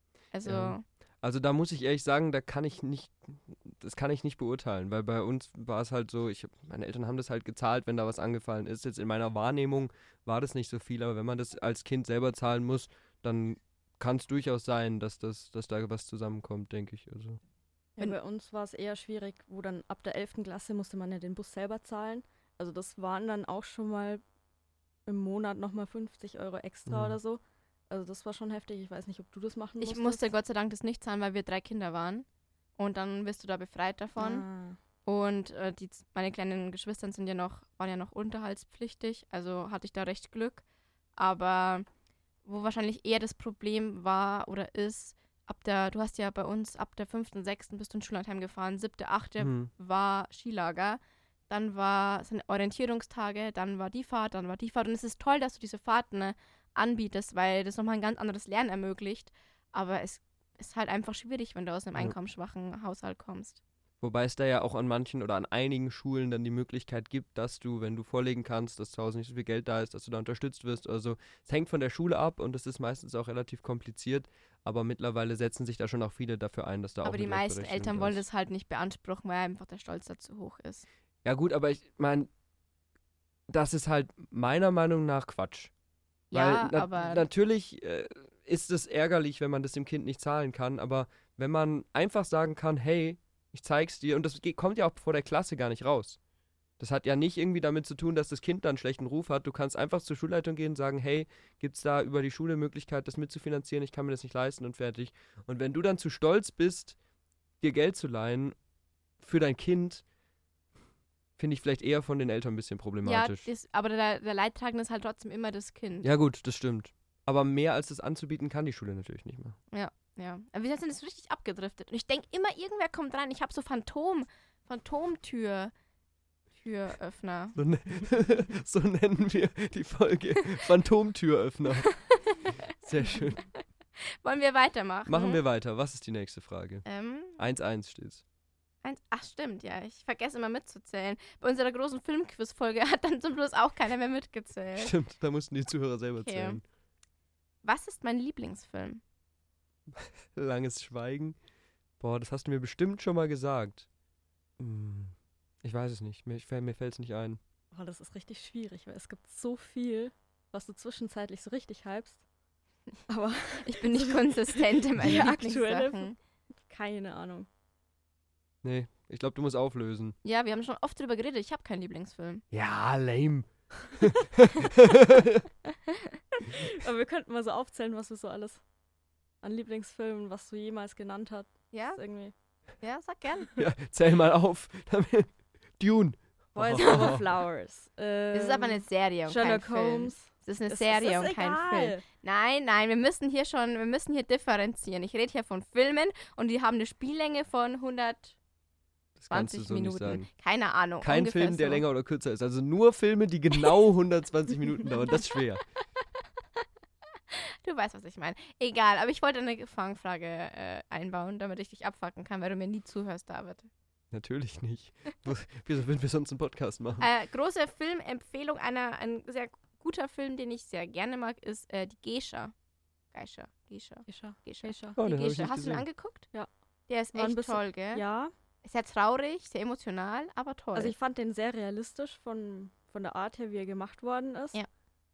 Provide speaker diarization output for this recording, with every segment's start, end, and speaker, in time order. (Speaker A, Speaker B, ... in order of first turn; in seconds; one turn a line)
Speaker A: 0.3-0.8
Speaker B: 0.4-17.4
Speaker C: 18.0-24.2
Speaker C: 25.1-30.3
Speaker B: 26.9-27.1
Speaker A: 29.8-32.2
Speaker A: 32.8-34.4
Speaker C: 34.2-34.8
Speaker A: 35.0-40.6
Speaker A: 41.2-41.9
Speaker A: 42.4-63.6
Speaker B: 49.4-49.7
Speaker B: 64.0-78.2
Speaker A: 77.0-80.8
Speaker B: 81.2-82.3
Speaker B: 83.5-85.7
Speaker A: 86.3-87.2
Speaker B: 86.3-96.2
Speaker B: 96.8-107.0
Speaker B: 107.6-108.5
Speaker B: 109.2-110.0
Speaker B: 111.4-113.5
Speaker A: 113.0-116.1
Speaker B: 116.0-119.6
Speaker A: 119.7-125.7
Speaker A: 126.5-127.6
Speaker B: 127.5-131.9
Speaker A: 131.8-132.5
Speaker B: 132.8-133.4
Speaker A: 134.1-135.4
Speaker B: 135.1-136.8
Speaker A: 136.8-137.4
Speaker B: 137.4-138.2
Speaker A: 138.8-144.9
Speaker B: 144.8-146.6
Speaker A: 146.2-146.6
Speaker A: 147.6-149.0
Speaker B: 149.9-151.4
Speaker B: 152.0-153.9
Speaker B: 154.6-157.4
Speaker C: 157.7-162.2
Speaker C: 163.1-166.1
Speaker A: 163.6-166.1
Speaker C: 166.7-167.5
Speaker B: 168.6-170.2
Speaker A: 170.2-172.4
Speaker B: 172.5-175.5
Speaker C: 176.4-178.6
Speaker C: 179.4-182.3
Speaker A: 181.7-182.0
Speaker A: 182.8-183.5
Speaker B: 183.6-187.2
Speaker C: 186.5-192.0
Speaker A: 186.8-187.1
Speaker A: 188.3-198.3
Speaker B: 199.2-200.3
Speaker A: 199.3-201.8
Speaker B: 201.0-205.6
Speaker A: 207.3-213.7
Speaker B: 214.1-217.1
Speaker A: 217.0-222.5
Speaker A: 223.1-226.3
Speaker C: 224.1-225.0
Speaker B: 225.0-225.8
Speaker A: 226.9-228.0
Speaker C: 227.1-228.3
Speaker A: 228.6-230.9
Speaker C: 230.7-234.6